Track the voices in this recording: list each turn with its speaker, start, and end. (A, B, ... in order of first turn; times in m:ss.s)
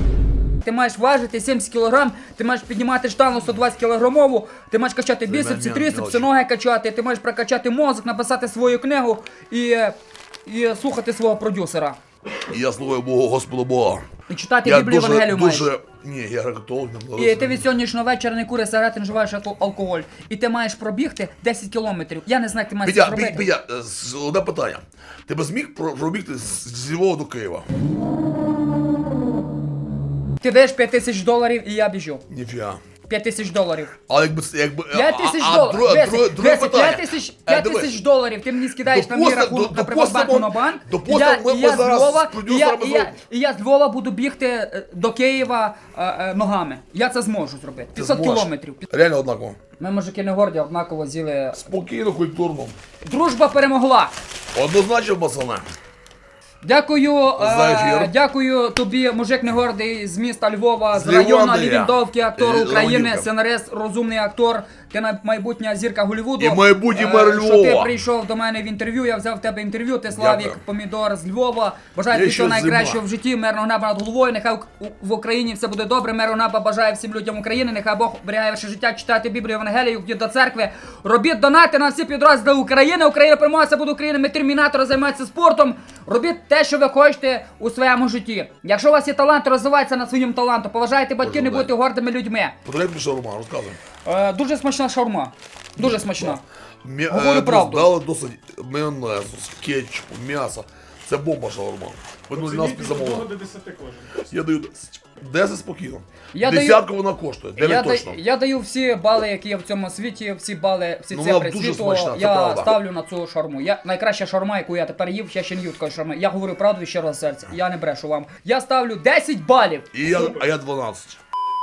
0:00.6-0:12.0 A
0:05.2-0:06.3 B
0:12.5-0:14.1 B
0:14.3-0:15.7 A
0:14.6-0:17.7 B
0:17.2-0:23.5 A
0:22.8-0:27.7 B
0:30.4-0:32.2 A
0:32.3-0:32.8 B
0:33.1-0:34.0 A
0:34.1-0:38.0 B
0:34.9-0:48.8 A
0:38.8-0:43.2 B
0:47.9-0:49.6 B
0:49.8-0:51.6 A
0:51.5-0:52.8 B
0:53.0-0:54.1 A
0:54.5-0:55.6 B
0:56.6-1:32.5 A
0:57.4-0:58.1 B
1:00.9-1:03.3 B
1:06.4-1:07.9 B
1:10.1-1:10.6 B
1:12.1-1:13.0 B
1:31.2-1:31.7 B
1:32.6-1:33.8 B
1:34.0-1:36.4 A
1:35.8-1:43.3 B
1:37.1-1:37.9 A
1:42.3-1:44.2 C
1:44.2-1:48.2 B
1:46.3-1:46.8 A
1:47.6-2:00.4 A
1:51.1-1:52.8 B
1:59.9-2:01.2 B